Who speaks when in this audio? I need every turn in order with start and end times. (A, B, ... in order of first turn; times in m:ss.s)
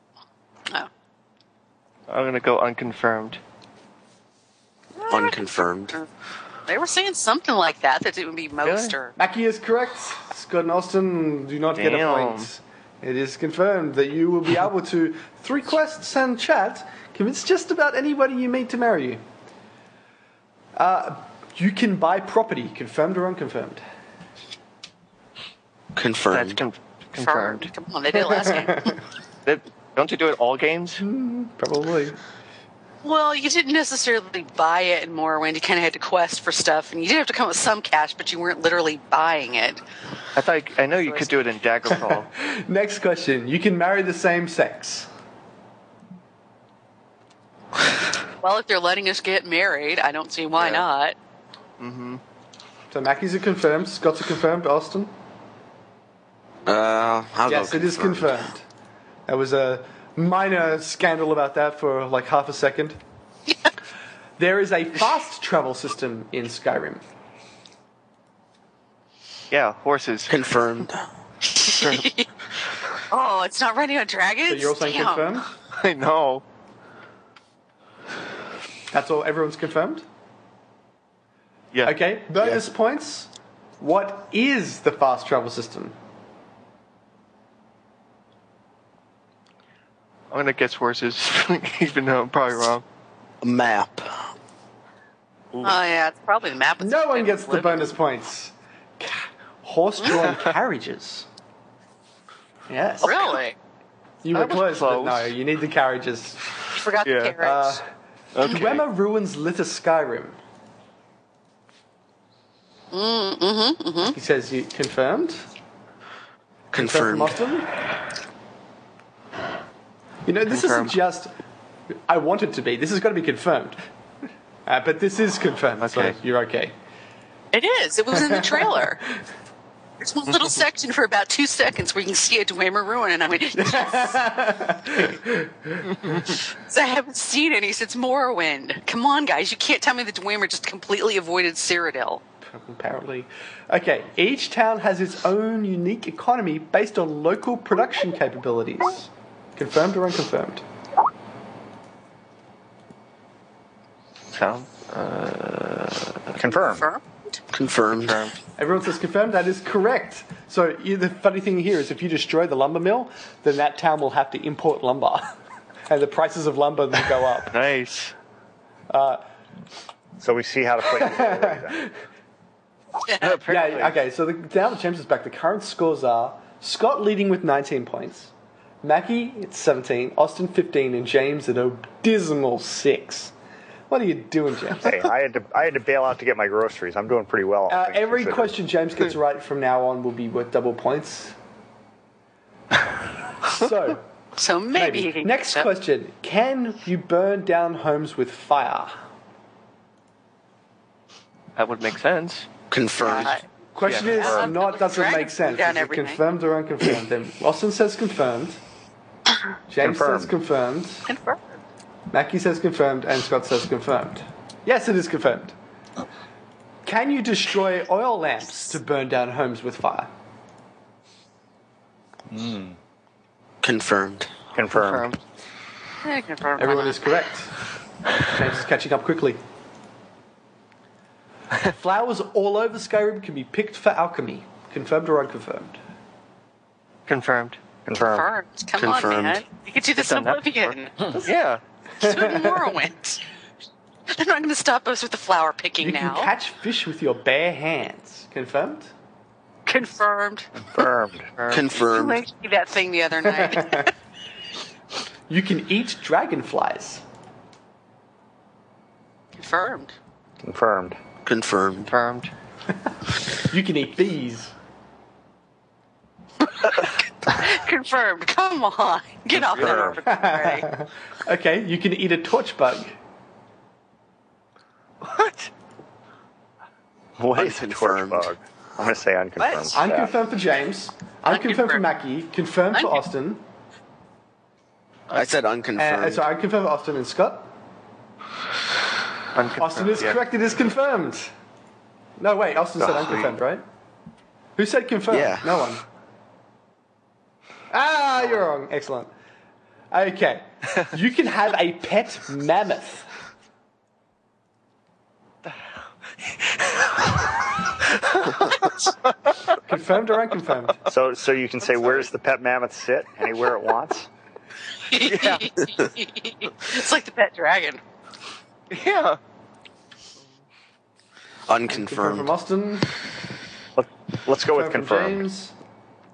0:02.1-0:03.4 A
0:05.0-0:05.4 B
0:05.1-0:06.0 C
0:06.7-0:09.1 B
0:08.6-0:09.0 A
0:09.2-0:19.2 D
0:11.8-0:12.5 A
0:20.8-0:23.8 D
0:26.0-0:26.6 C
0:26.3-0:27.7 A
0:27.2-0:29.0 B
0:28.3-0:29.0 D
0:29.4-0:31.0 A
0:31.0-0:32.2 D
0:33.0-0:39.8 B
0:40.4-0:42.3 A
0:42.0-0:45.1 D
0:48.4-0:51.2 B
0:50.6-0:50.8 A
0:51.8-0:52.2 A
0:52.9-0:55.1 D
0:56.7-0:58.4 C
0:57.5-0:58.6 D
0:59.3-1:03.0 D
1:04.4-1:07.0 D
1:09.5-1:10.3 A
1:10.3-1:11.0 C
1:11.5-1:12.3 B
1:11.6-1:12.1 A
1:13.1-1:15.4 B
1:14.5-1:15.5 D
1:15.7-1:16.4 A
1:18.9-1:20.0 D
1:21.8-1:26.0 D
1:30.3-1:32.8 A
1:33.4-1:34.1 C
1:35.6-1:38.0 B
1:36.8-1:41.3 D
1:42.7-1:43.4 D
1:43.0-1:43.6 B
1:44.2-1:46.4 D
1:44.3-1:45.3 A
1:46.7-1:47.8 B
1:47.0-1:47.4 A
1:47.4-1:47.9 D
1:48.4-1:48.8 A
1:48.4-1:50.4 D
1:52.9-1:54.2 B
1:54.1-1:55.4 D
1:56.7-1:57.4 C
1:56.7-1:57.7 D
2:00.3-2:01.3 D
2:00.5-2:01.0 A
2:02.1-2:03.8 D
2:04.7-2:06.7 D
2:05.8-2:06.2 A
2:07.5-2:09.0 B
2:08.1-2:09.0 D
2:10.0-2:14.2 B
2:13.6-2:16.2 D
2:16.5-2:22.2 B
2:22.4-2:30.6 D
2:34.3-2:36.4 A
2:36.4-2:36.9 E
2:36.5-2:37.0 B
2:37.5-2:38.2 C
2:37.9-2:38.4 A
2:38.6-2:45.3 D
2:45.9-2:47.5 D
2:47.5-2:48.1 A
2:48.9-2:49.2 D
2:50.2-2:51.8 E
2:51.0-2:51.9 D
2:53.1-2:53.4 B
2:53.2-2:54.0 A
2:53.4-3:03.3 D
3:03.9-3:05.0 D
3:04.8-3:08.6 E
3:07.7-3:11.4 D
3:13.4-3:14.1 D
3:14.4-3:15.7 B
3:14.7-3:18.9 D
3:21.6-3:22.5 A
3:22.7-3:23.4 C
3:23.0-3:23.4 B
3:23.7-3:28.6 D
3:23.8-3:24.3 A
3:24.0-3:26.2 B
3:29.7-3:31.1 D
3:29.8-3:30.3 E
3:31.1-3:31.4 B
3:32.1-3:35.6 D
3:36.8-3:40.1 D
3:42.3-3:42.8 E
3:43.6-3:44.3 C
3:44.6-3:45.1 E
3:44.7-3:45.2 A
3:46.0-3:47.0 B
3:46.6-3:47.6 D
3:48.2-3:49.4 D
3:51.6-3:55.8 D
3:57.1-3:57.6 A
3:57.9-3:58.3 E
3:58.1-4:01.1 B
3:58.8-3:59.4 C
4:00.0-4:01.6 A
4:02.0-4:02.7 D
4:02.0-4:03.2 B
4:04.1-4:06.3 B
4:05.8-4:08.9 D
4:09.7-4:10.5 B
4:10.6-4:11.3 E
4:11.4-4:11.8 A
4:11.5-4:12.2 C
4:11.8-4:13.9 B
4:13.3-4:13.9 D
4:15.3-4:17.0 D
4:19.4-4:19.9 B
4:20.4-4:21.0 E
4:21.2-4:21.9 C
4:21.8-4:22.3 A
4:23.4-4:24.5 D
4:26.5-4:30.7 B
4:29.4-4:30.0 E
4:30.0-4:33.0 D
4:35.0-4:35.5 A
4:37.2-4:40.1 E
4:37.4-4:38.3 C
4:39.7-4:43.4 D
4:41.3-4:41.8 B
4:42.8-4:43.0 B
4:45.1-4:46.3 C
4:45.8-4:47.5 D
4:49.3-4:50.2 A
4:49.6-4:51.3 D
4:52.2-4:53.6 D
4:54.6-4:55.8 D
4:55.1-4:55.5 C
4:57.7-4:59.1 D
4:59.9-5:03.1 D
5:06.4-5:07.1 A
5:08.1-5:08.9 A
5:09.6-5:10.8 D
5:10.9-5:14.1 E
5:14.9-5:17.8 B
5:15.0-5:15.4 A
5:18.7-5:19.2 A
5:21.5-5:22.3 C
5:21.7-5:22.9 D
5:23.8-5:25.3 E
5:24.5-5:25.5 D